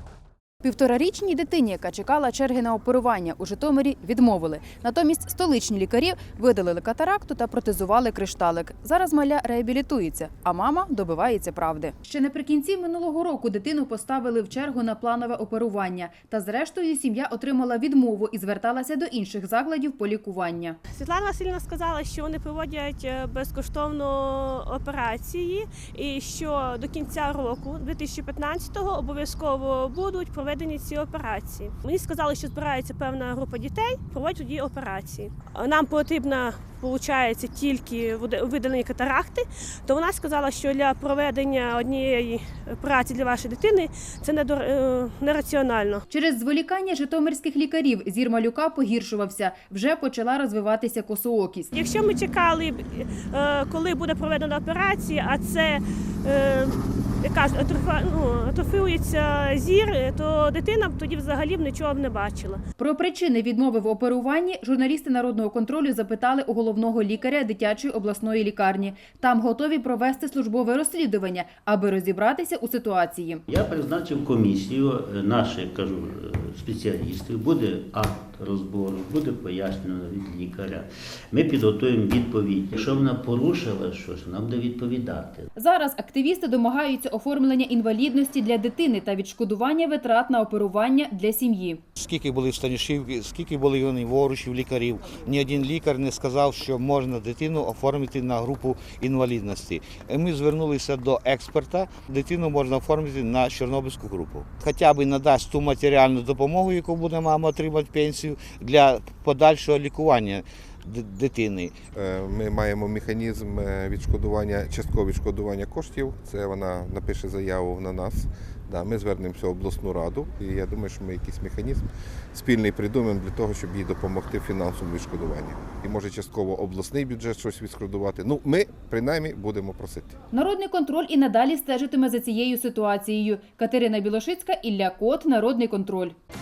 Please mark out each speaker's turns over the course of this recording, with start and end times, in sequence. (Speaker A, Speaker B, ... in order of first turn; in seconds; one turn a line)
Speaker A: 0.6-20.8
Speaker B: 20.9-46.0
Speaker A: 46.1-51.7
Speaker B: 51.7-62.6
Speaker A: 62.8-73.4
Speaker C: 73.5-85.5
Speaker A: 85.5-91.8
Speaker D: 92.0-111.8
Speaker E: 111.9-130.1
Speaker A: 130.3-136.2